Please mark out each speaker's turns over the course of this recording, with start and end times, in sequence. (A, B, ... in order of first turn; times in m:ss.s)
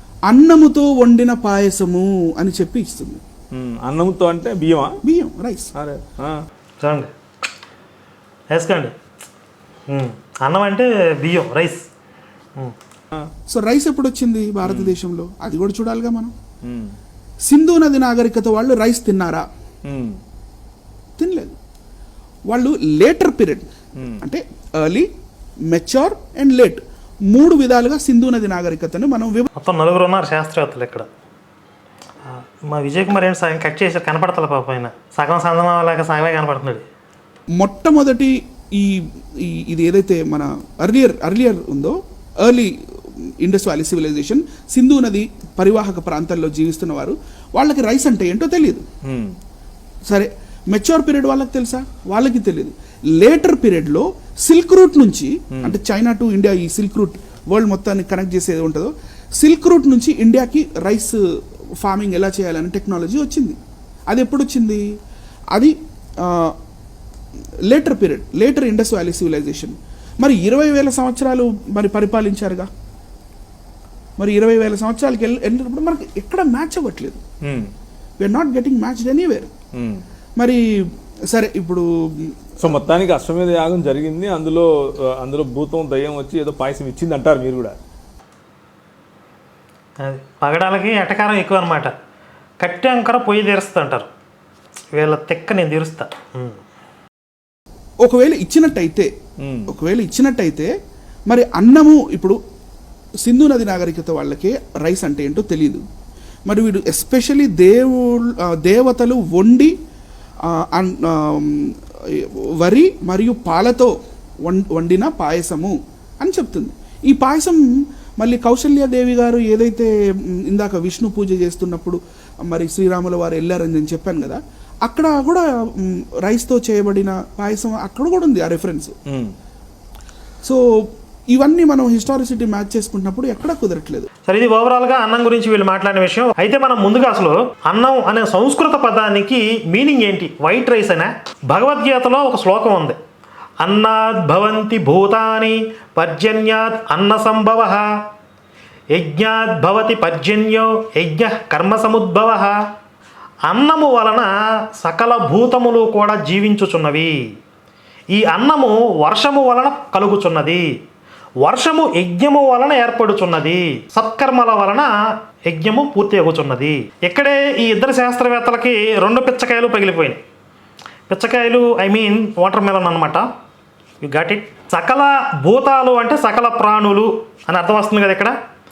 0:00.3-0:03.2 A
0:03.6-0:05.0 B
0:05.0-0:05.7 A
0:05.8-0:06.4 B
0:06.8-0:07.1 C
0:08.5-0:08.9 C
0:09.9-0:11.8 C
0:13.5-0:16.3 A
0:14.6-0:15.0 B
0:16.6-0:17.0 B
0:17.5-0:19.5 A
0:19.9-0:20.2 B
0:21.2-0:21.6 A
0:22.5-0:25.1 A
0:25.7-0:29.5 A
0:29.6-0:31.1 C
0:32.3-0:36.8 C
0:37.6-0:48.8 A
0:49.1-0:49.4 B
0:50.1-1:01.2 A
1:01.8-1:04.8 A
1:05.5-1:06.6 A
1:07.7-1:12.7 A
1:14.2-1:17.2 A
1:17.4-1:17.7 B
1:18.2-1:19.5 A
1:19.8-1:20.0 B
1:21.3-1:22.5 A
1:22.6-1:27.7 B
1:30.0-1:31.9 C
1:32.6-1:34.1 C
1:35.0-1:36.6 C
1:38.0-1:39.1 A
1:39.4-1:39.7 B
1:39.7-1:40.7 A
1:41.3-1:42.4 A
1:43.2-1:45.8 A
1:46.5-1:49.7 A
1:50.5-1:53.9 A
1:54.5-1:57.6 A
1:58.2-2:09.0 A
2:11.3-2:14.1 A
2:14.3-2:23.0 C
2:23.6-2:27.9 C
2:29.0-2:32.6 C
2:33.5-2:37.1 C
2:38.1-2:40.6 C
2:41.4-2:44.9 C
2:45.5-2:50.2 C
2:51.1-2:53.2 C
2:54.0-2:58.4 C